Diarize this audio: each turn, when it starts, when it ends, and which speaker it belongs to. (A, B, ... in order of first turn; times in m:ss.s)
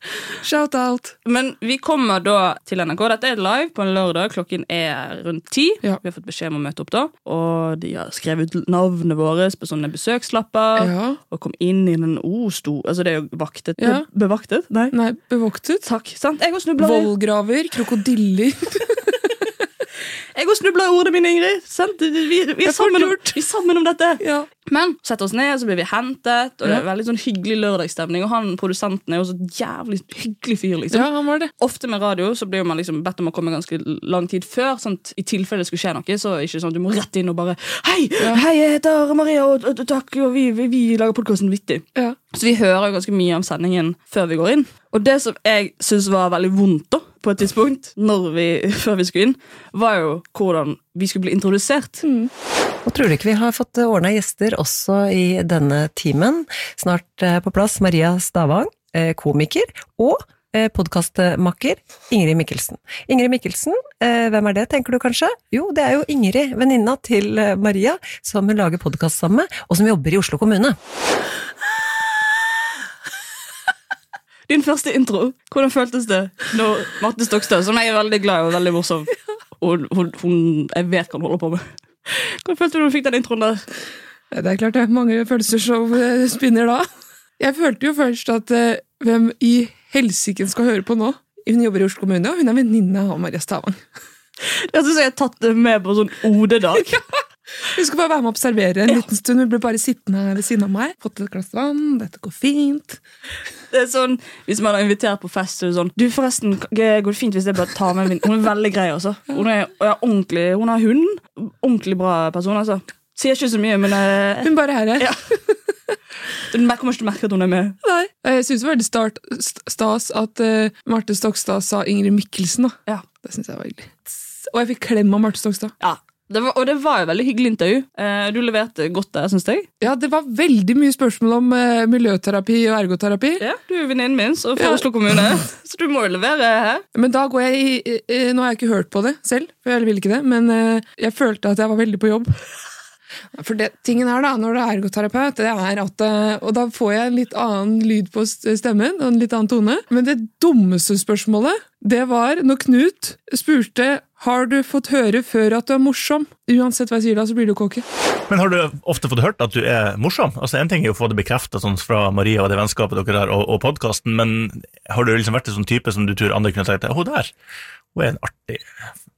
0:00.4-0:01.1 A
0:01.2-0:14.9 B
0:10.8-0:11.2 A
0:13.8-0:14.0 A
0:14.9-0:15.8 A
0:15.8-0:17.1 B
0:16.8-0:19.3 A
0:20.3-0:52.0 B
0:22.6-0:23.4 A
0:24.2-0:24.5 A
0:30.9-0:31.5 A
0:52.0-0:52.3 A
0:52.8-1:10.8 C
1:14.5-1:23.6 B
1:24.3-1:26.8 A
1:27.4-1:33.8 A
1:34.4-1:36.9 B
1:37.7-1:43.0 A
1:43.7-1:55.2 B
1:54.4-1:55.1 A
1:56.5-1:57.8 B
1:57.8-2:05.7 A
2:05.8-2:09.7 B
2:09.8-2:13.4 A
2:13.4-2:16.8 B
2:14.6-2:14.8 A
2:16.9-2:22.4 A
2:23.4-2:37.8 A
2:38.3-2:47.3 D
2:47.9-2:48.6 D